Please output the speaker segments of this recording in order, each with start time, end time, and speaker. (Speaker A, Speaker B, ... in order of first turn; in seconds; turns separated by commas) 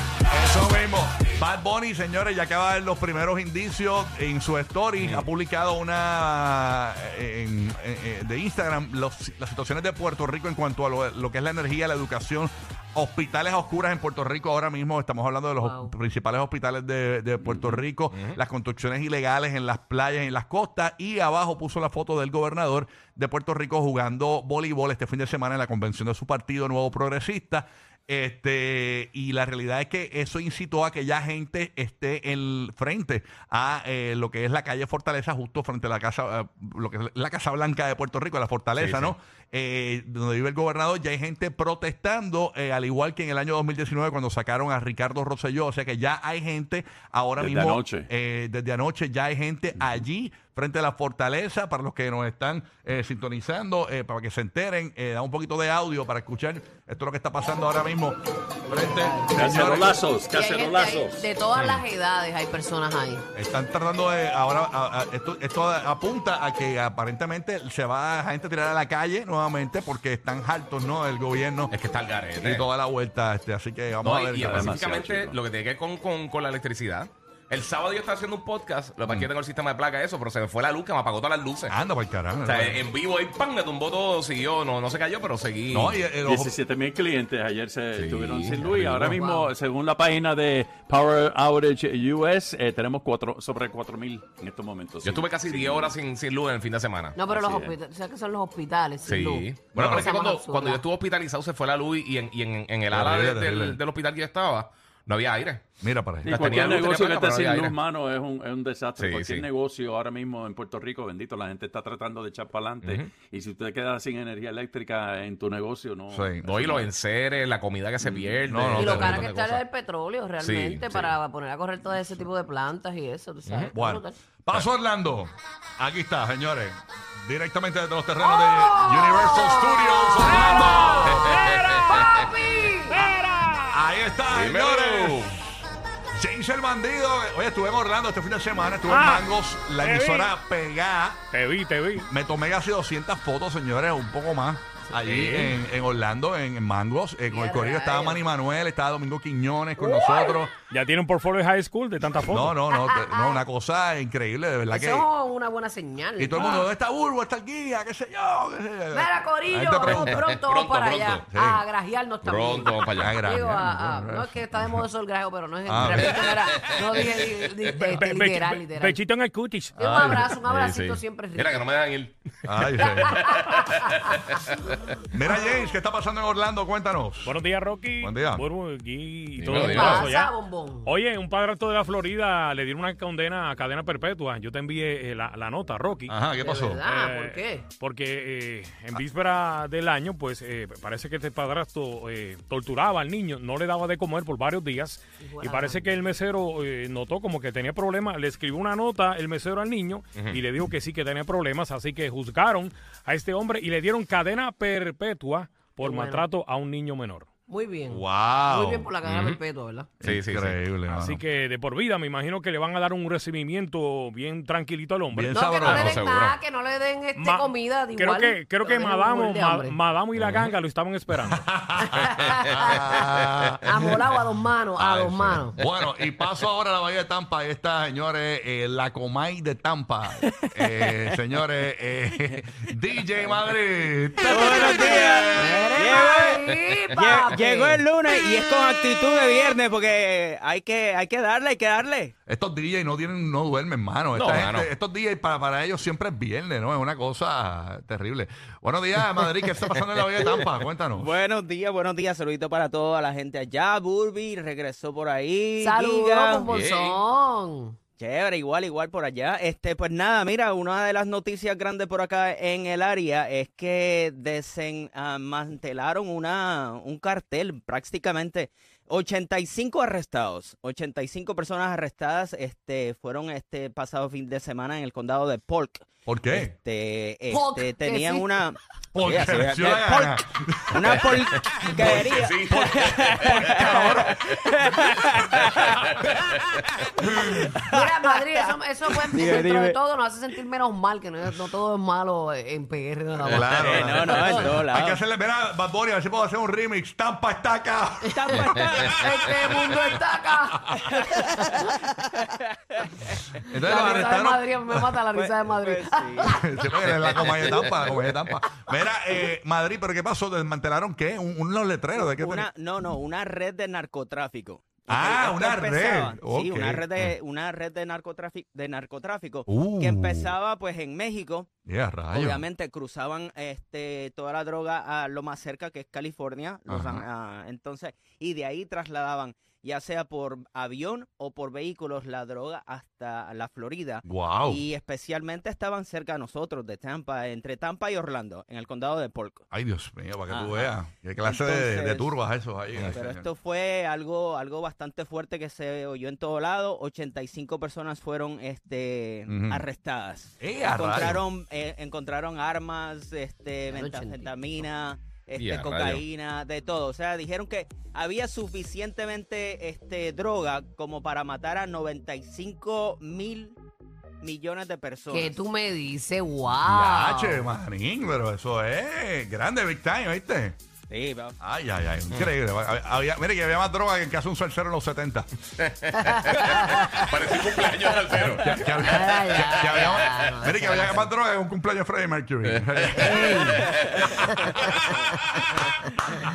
Speaker A: 0.3-60.0, Speaker B: 5.0-5.3, Speaker C: 15.6-15.9, Speaker D: 17.5-17.8, Speaker B: 18.1-18.4, Speaker B: 38.8-39.1, Speaker D: 47.4-48.1, Speaker C: 58.7-59.4, Speaker D: 59.3-61.2, Speaker C: 60.3-63.2, Speaker B: 61.5-61.8, Speaker A: 63.3-71.7, Speaker B: 71.7-72.7, Speaker A: 72.4-74.8, Speaker B: 74.0-81.8, Speaker D: 74.4-75.4, Speaker A: 81.7-82.8, Speaker B: 82.4-86.0, Speaker A: 85.7-86.5, Speaker D: 86.2-95.9, Speaker B: 87.9-88.6, Speaker A: 88.7-89.0, Speaker C: 89.1-89.5, Speaker B: 95.0-97.2, Speaker C: 97.2-100.8, Speaker D: 97.2-97.7, Speaker B: 99.0-105.6, Speaker A: 99.7-100.1, Speaker A: 102.9-103.8, Speaker A: 105.8-106.7, Speaker D: 106.2-116.9, Speaker B: 106.3-107.8, Speaker B: 109.0-109.5, Speaker B: 112.8-113.1, Speaker A: 116.1-116.4, Speaker B: 116.4-119.6, Speaker A: 118.0-119.3, Speaker C: 118.8-124.2, Speaker B: 120.4-121.1, Speaker B: 123.5-123.7, Speaker A: 123.7-131.3, Speaker C: 128.2-131.1, Speaker E: 130.5-133.8, Speaker B: 131.1-132.1, Speaker C: 131.7-133.1, Speaker A: 133.7-135.4, Speaker B: 134.3-135.4, Speaker A: 136.1-141.2, Speaker E: 138.9-139.2, Speaker E: 139.8-140.3, Speaker E: 141.3-142.1, Speaker A: 142.0-150.5, Speaker E: 145.0-145.6, Speaker C: 147.3-148.2, Speaker C: 149.8-150.5, Speaker E: 150.7-152.6, Speaker A: 152.2-155.1, Speaker C: 152.7-153.4, Speaker C: 154.7-156.7, Speaker A: 156.2-160.2, Speaker C: 158.9-169.0, Speaker B: 159.8-161.2, Speaker A: 161.3-161.6, Speaker B: 162.2-163.2, Speaker A: 162.9-164.8, Speaker A: 165.7-166.2, Speaker B: 166.0-167.1, Speaker E: 167.8-169.8, Speaker C: 169.8-171.7, Speaker B: 169.8-174.3, Speaker A: 172.4-173.2, Speaker C: 172.8-174.2, Speaker A: 175.1-177.3, Speaker E: 177.2-180.3, Speaker A: 178.0-178.4, Speaker B: 179.4-180.1, Speaker C: 179.5-180.9, Speaker E: 180.8-186.1, Speaker A: 186.1-186.8, Speaker C: 186.4-187.7, Speaker E: 186.8-207.3, Speaker C: 195.2-195.9, Speaker C: 205.8-206.2, Speaker C: 207.5-209.9, Speaker A: 207.9-208.9, Speaker B: 209.0-209.4, Speaker A: 210.0-211.2, Speaker B: 210.0-210.6, Speaker E: 210.8-215.8, Speaker A: 215.1-215.9, Speaker C: 215.3-219.8, Speaker B: 215.8-216.4, Speaker E: 217.2-221.4, Speaker B: 220.2-220.5, Speaker A: 221.2-223.9, Speaker C: 221.8-222.8, Speaker C: 223.6-225.6, Speaker A: 224.8-235.6, Speaker F: 230.2-230.9, Speaker F: 234.2-242.1, Speaker C: 235.3-237.8, Speaker A: 242.3-251.1, Speaker B: 244.1-244.7, Speaker F: 250.9-256.5, Speaker C: 255.6-257.7, Speaker B: 256.5-257.0, Speaker F: 258.0-285.8, Speaker A: 276.1-276.5, Speaker C: 277.3-278.4, Speaker A: 278.9-284.2, Speaker B: 281.8-283.8, Speaker B: 285.7-286.9, Speaker A: 287.0-287.5, Speaker F: 287.1-289.8, Speaker C: 287.7-294.6, Speaker A: 293.2-299.0, Speaker F: 293.3-295.0, Speaker C: 298.1-301.8, Speaker F: 298.2-299.1, Speaker F: 302.8-303.0, Speaker A: 303.5-304.9, Speaker C: 303.6-306.4, Speaker F: 303.6-304.2, Speaker F: 305.1-306.4, Speaker A: 306.2-312.4, Speaker B: 307.0-308.4, Speaker F: 312.0-321.5, Speaker A: 314.9-317.1, Speaker A: 319.5-320.3, Speaker A: 321.6-322.4, Speaker F: 322.1-339.4, Speaker A: 326.7-327.0, Speaker A: 334.0-334.6, Speaker A: 339.5-343.2, Speaker F: 340.3-342.1, Speaker F: 342.9-363.6, Speaker A: 349.3-349.6, Speaker A: 350.4-351.2, Speaker C: 353.7-354.3, Speaker B: 355.4-356.0, Speaker F: 364.2-365.4, Speaker C: 365.1-367.5, Speaker A: 366.6-370.6, Speaker F: 370.9-371.3, Speaker A: 371.4-375.3, Speaker B: 375.6-380.1, Speaker C: 376.0-377.0, Speaker A: 378.1-384.5, Speaker C: 378.8-381.0, Speaker B: 382.4-384.1, Speaker C: 383.0-385.1, Speaker C: 385.9-386.2